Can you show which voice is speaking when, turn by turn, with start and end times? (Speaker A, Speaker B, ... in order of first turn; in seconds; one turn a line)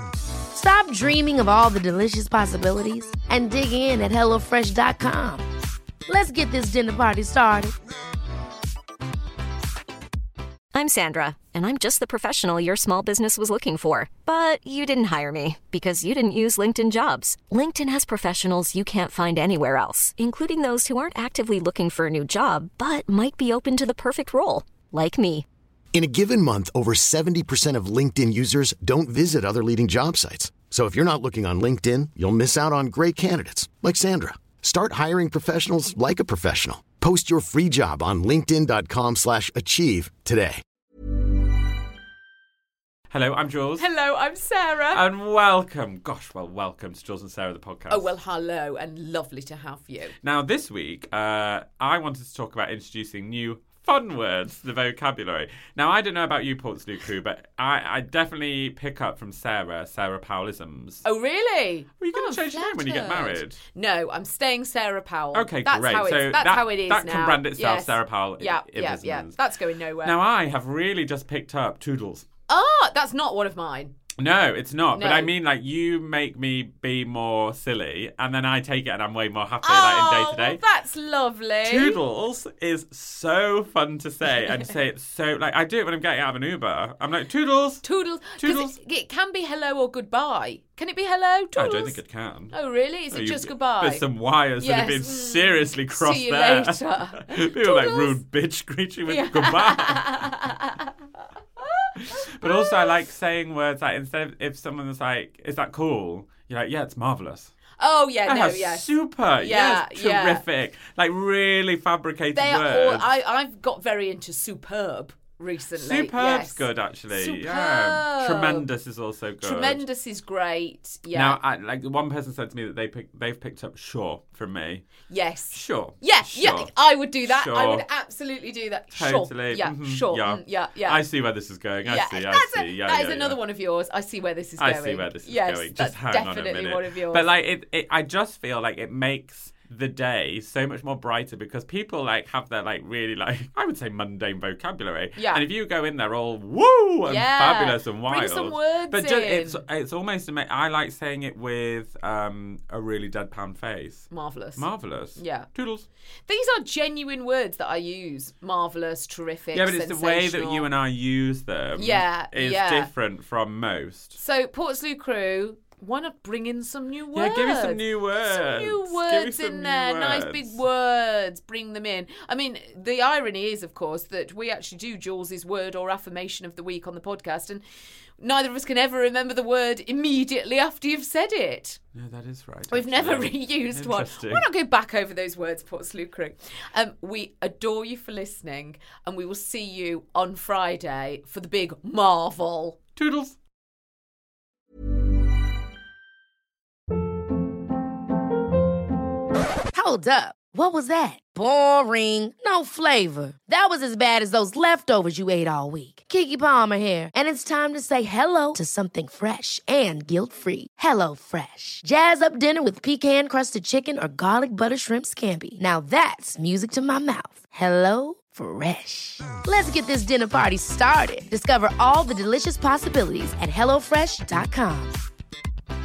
Speaker A: 0.5-5.5
Speaker A: 6.1-7.7
Speaker B: 10.7-25.4
Speaker C: 25.9-40.6
Speaker D: 43.1-43.9
Speaker E: 43.8-45.0
Speaker D: 44.9-48.1
Speaker E: 47.9-50.1
Speaker D: 50.2-61.0
Speaker E: 61.0-70.2
Speaker D: 62.0-63.6
Speaker D: 65.3-69.4
Speaker D: 70.0-72.3
Speaker E: 72.5-73.9
Speaker D: 74.2-80.6
Speaker E: 74.9-75.3
Speaker E: 79.6-82.0
Speaker D: 81.6-88.8
Speaker E: 84.3-84.7
Speaker E: 87.8-92.0
Speaker D: 91.5-92.6
Speaker E: 92.5-94.0
Speaker D: 93.1-100.3
Speaker E: 94.6-98.2
Speaker E: 99.0-100.9
Speaker E: 101.6-102.8
Speaker D: 102.0-107.5
Speaker E: 107.8-110.4
Speaker D: 108.3-113.1
Speaker E: 112.3-118.7
Speaker D: 115.7-119.8
Speaker E: 119.4-121.4
Speaker D: 121.1-125.0
Speaker E: 125.0-131.0
Speaker D: 125.5-126.7
Speaker D: 127.2-127.8
Speaker D: 128.9-133.4
Speaker E: 131.8-137.3
Speaker D: 134.6-155.8
Speaker E: 145.2-145.4
Speaker E: 147.1-149.6
Speaker E: 154.1-155.5
Speaker E: 156.3-160.7
Speaker D: 159.5-164.2
Speaker E: 161.8-162.9
Speaker E: 164.2-177.6
Speaker D: 167.1-170.6
Speaker E: 178.2-181.8
Speaker D: 181.9-184.5
Speaker E: 182.7-192.8
Speaker D: 192.9-193.3
Speaker A: 199.7-224.9